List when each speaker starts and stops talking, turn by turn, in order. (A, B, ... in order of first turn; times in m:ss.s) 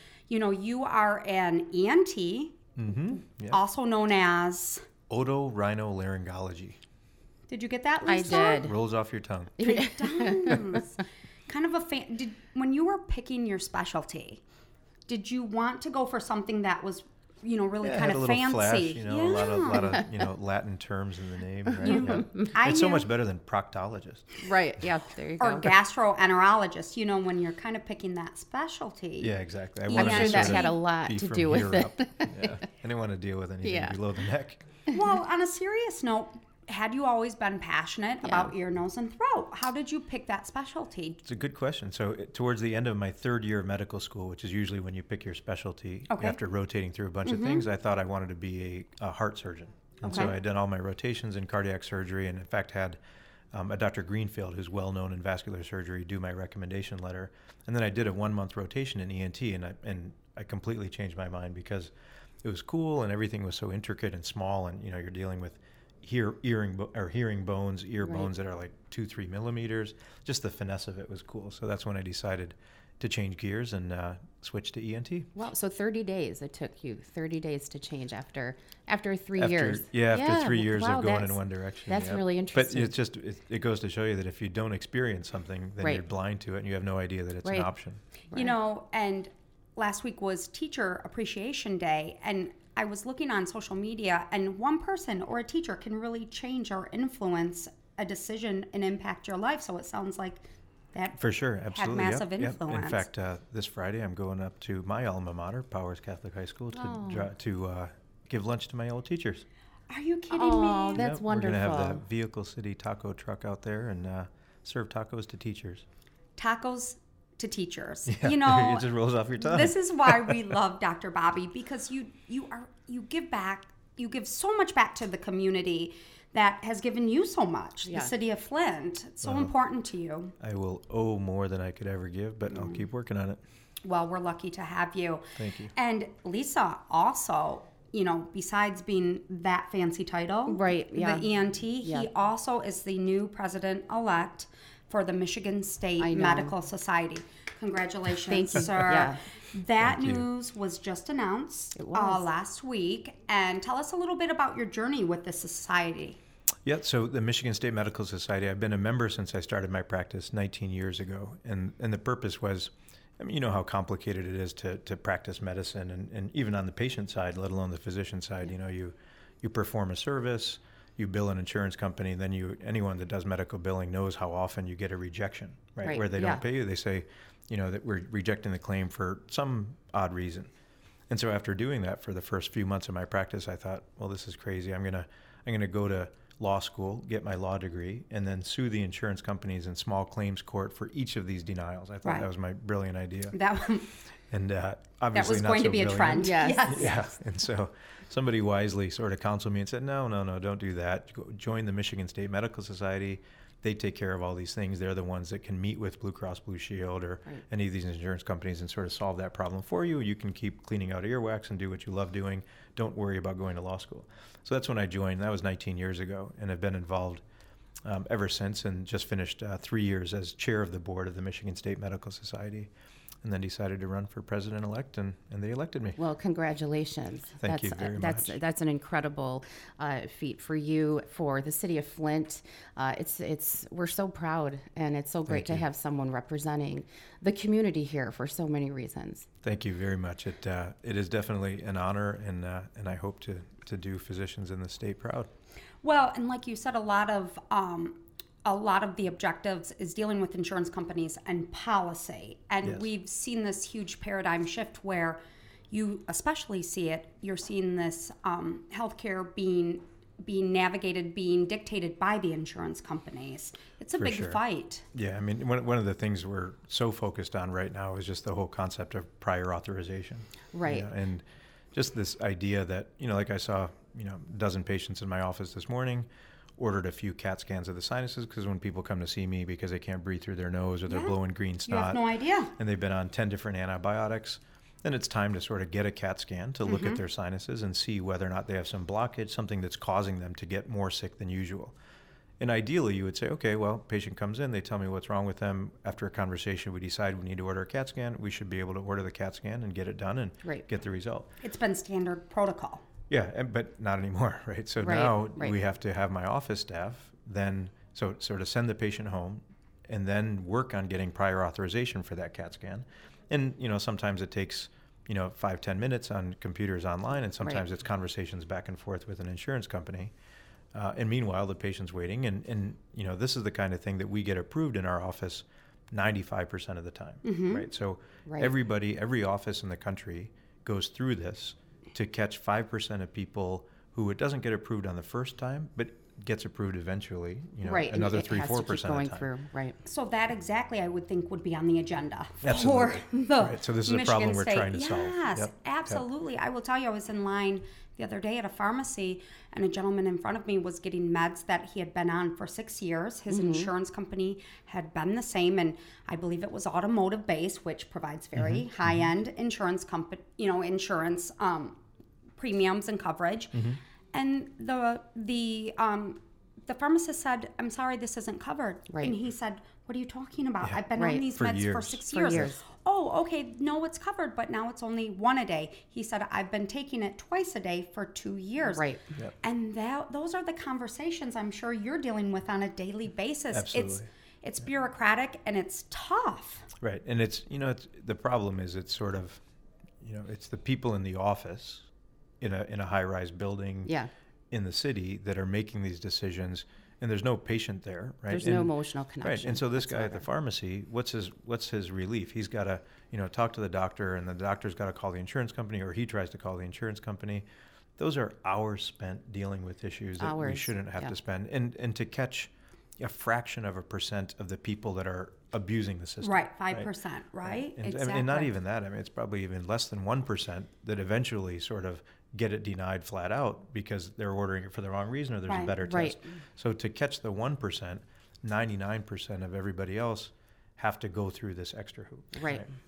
0:00.3-0:02.6 A
0:02.8-0:03.6 B
0:03.5-0:04.8 A
0:05.1-0:06.8 B
0:07.5-0:08.7 A
0:08.1-0:08.8 C
0:08.5-0:09.6 B
0:09.6-0:10.6 C
0:09.6-0:14.4 A
0:15.1-0:20.0 A
0:17.8-0:24.3 B
0:21.8-0:23.1 A
0:21.8-0:22.5 C
0:24.4-0:25.8 C
0:25.4-0:29.3 A
0:29.2-0:34.7 B
0:29.9-0:30.8 A
0:30.0-0:32.6 C
0:33.6-0:34.0 C
0:34.9-0:41.2 A
0:38.2-0:38.5 C
0:41.2-0:53.0 B
0:46.1-0:46.4 A
0:47.2-0:47.7 A
0:50.0-0:50.3 C
0:50.1-0:50.4 A
0:53.5-1:01.9 B
1:02.4-1:15.3 B
1:08.0-1:08.3 C
1:15.3-1:23.0 C
1:19.4-1:28.0 B
1:27.4-1:27.7 C
1:28.3-1:43.1 A
1:41.2-1:49.4 B
1:46.7-1:47.3 C
1:49.9-1:51.0 A
1:50.3-1:52.0 C
1:51.0-1:55.8 B
1:56.4-2:10.4 A
1:58.1-2:00.6 B
2:07.9-2:08.1 C
2:09.2-2:09.5 B
2:10.4-2:13.4 B
2:12.5-2:12.9 A
2:13.8-2:36.2 A
2:15.4-2:15.7 B
2:20.5-2:22.1 C
2:26.0-2:26.6 C
2:28.3-2:29.2 C
2:29.8-2:30.3 B
2:31.8-2:32.3 C
2:36.7-3:00.5 B
2:55.8-2:56.4 C
3:01.1-3:13.4 B
3:12.0-3:12.3 A
3:13.3-3:13.9 A
3:14.3-3:37.2 B
3:15.1-3:17.0 A
3:16.2-3:17.1 C
3:37.8-3:42.7 B
3:43.2-3:46.0 B
3:46.0-3:59.3 C
3:47.4-3:48.4 B
3:55.3-3:55.7 B
3:59.4-4:05.3 B
4:05.8-4:15.2 A
4:15.7-4:24.8 A
4:24.0-4:24.4 B
4:24.9-4:36.1 B
4:30.5-4:30.9 C
4:36.6-4:42.0 B
4:40.9-4:42.5 A
4:42.6-4:51.8 B
4:46.6-4:47.0 A
4:52.4-5:01.3 B
5:01.4-5:02.8 A
5:03.1-5:20.1 B
5:04.8-5:05.6 C
5:20.7-5:39.3 B
5:27.2-5:27.7 A
5:28.3-5:28.6 C
5:37.6-5:39.8 C
5:39.8-6:01.8 A
5:42.4-5:46.0 B
5:53.3-5:53.7 C
5:58.4-5:59.1 B
6:02.4-6:03.6 A
6:03.5-6:03.8 B
6:04.1-6:18.9 A
6:08.9-6:09.2 C
6:11.0-6:11.3 C
6:11.3-6:12.4 B
6:12.1-6:12.6 C
6:18.7-6:19.1 C
6:19.4-6:26.7 A
6:23.5-6:24.1 B
6:26.8-6:29.4 B
6:30.0-6:31.9 B
6:32.4-6:33.9 B
6:33.9-6:34.1 C
6:34.5-6:47.4 B
6:38.3-6:40.3 C
6:48.0-6:56.9 B
6:50.2-6:51.2 C
6:56.2-6:58.5 A
6:57.4-7:12.7 B
7:05.5-7:05.8 A
7:05.8-7:06.2 C
7:12.4-7:12.7 C